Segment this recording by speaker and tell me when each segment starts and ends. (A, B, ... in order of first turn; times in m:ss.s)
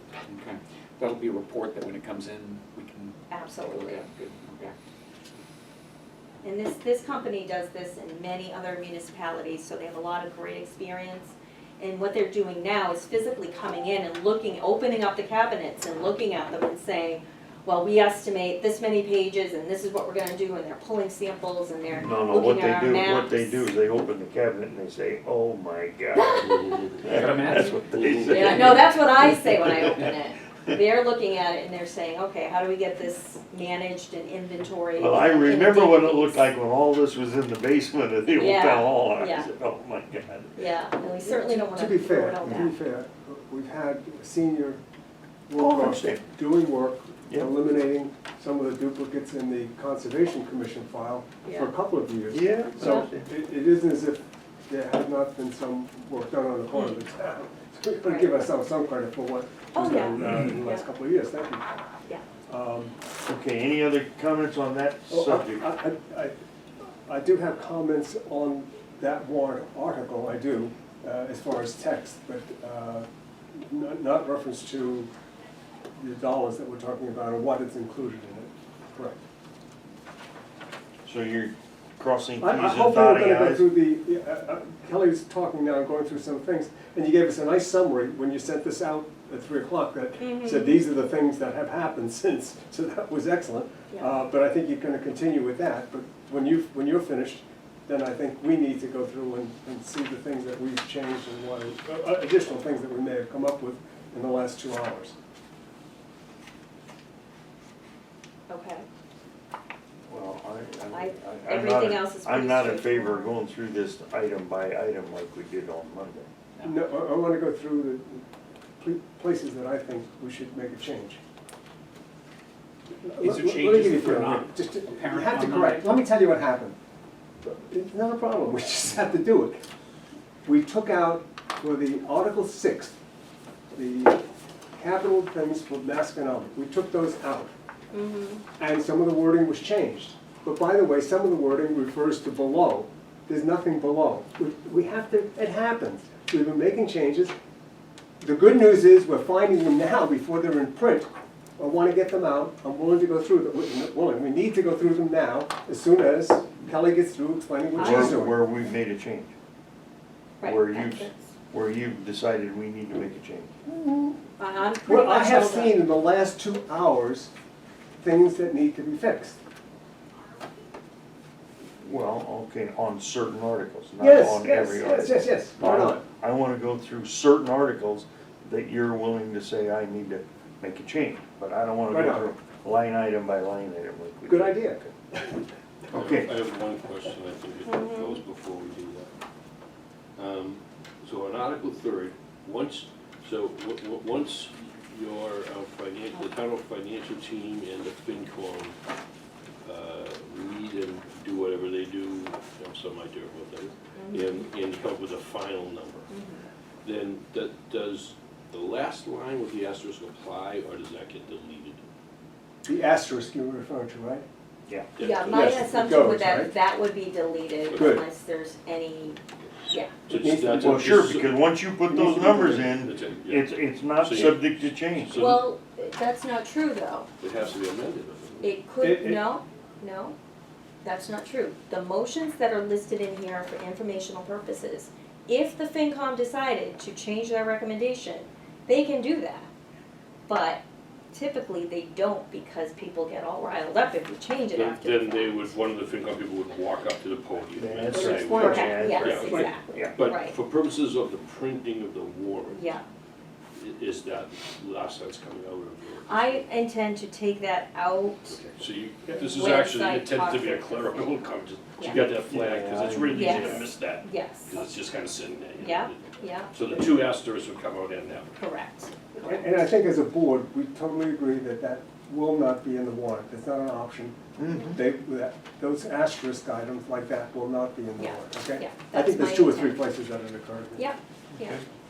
0:00.3-0:04.8 A
0:03.3-0:04.1 B
0:06.4-0:23.6 B
0:22.0-0:30.1 C
0:26.4-0:28.8 D
0:27.1-0:27.7 A
0:28.3-0:36.5 B
0:35.0-0:40.5 C
0:38.3-0:39.5 B
0:40.6-0:42.7 B
0:41.2-0:44.8 E
0:45.5-1:01.7 E
0:45.6-0:46.3 C
0:51.4-0:51.7 B
0:52.3-0:53.3 C
0:52.8-0:53.1 B
0:56.7-0:57.0 B
0:58.0-0:58.5 B
0:59.7-1:00.9 B
1:02.5-1:03.0 E
1:03.2-1:05.7 C
1:05.1-1:06.3 E
1:07.1-1:13.1 E
1:13.6-1:15.1 E
1:16.0-1:19.2 E
1:21.0-1:23.7 C
1:22.4-1:45.1 E
1:30.2-1:30.8 B
1:48.5-1:48.9 B
1:50.1-1:56.3 C
1:50.9-1:53.3 B
1:56.6-1:58.2 E
1:58.8-2:01.2 E
2:03.0-2:06.8 E
2:03.2-2:06.0 A
2:07.4-2:09.6 E
2:10.5-2:13.0 E
2:13.7-2:14.2 E
2:14.8-2:17.6 E
2:17.9-2:18.4 B
2:18.6-2:27.3 E
2:28.2-2:38.5 E
2:37.7-2:39.3 C
2:37.8-2:38.2 B
2:40.4-2:41.3 B
2:40.4-2:43.6 C
2:43.7-2:44.2 E
2:44.4-2:45.8 B
2:44.8-2:47.3 E
2:48.0-2:49.4 E
2:51.8-3:04.6 C
2:54.0-2:56.1 E
3:01.9-3:02.3 E
3:04.2-3:05.4 E
3:05.9-3:06.3 C
3:05.9-3:09.1 D
3:07.7-3:08.2 B
3:10.2-3:18.8 D
3:19.6-3:26.1 D
3:24.0-3:24.5 B
3:26.1-3:26.4 B
3:26.8-3:31.8 D
3:32.6-3:34.3 E
3:35.0-3:35.9 D
3:35.0-3:39.2 B
3:35.3-3:36.5 E
3:37.7-3:38.0 D
3:37.8-3:38.0 E
3:39.7-3:40.0 B
3:40.1-3:40.9 E
3:40.1-3:41.4 D
3:40.6-3:45.2 C
3:41.8-3:42.8 E
3:42.8-3:45.5 D
3:45.1-3:47.1 B
3:47.2-3:48.6 D
3:48.4-3:50.2 B
3:48.8-3:49.2 E
3:50.8-3:59.5 B
4:00.3-4:05.5 B
4:04.5-4:12.6 D
4:07.6-4:09.9 C
4:07.9-4:08.5 E
4:08.1-4:10.4 B
4:09.1-4:09.5 E
4:12.5-4:12.8 B
4:13.6-4:16.4 D
4:16.1-4:18.4 B
4:18.3-4:28.4 D
4:19.1-4:21.2 B
4:21.8-4:22.0 B
4:21.9-4:23.7 C
4:23.1-4:24.6 B
4:25.6-4:26.5 B
4:28.4-4:29.5 B
4:29.2-4:34.2 E
4:34.4-4:34.8 C
4:34.7-4:40.9 E
4:38.0-4:39.8 B
4:40.8-4:41.6 B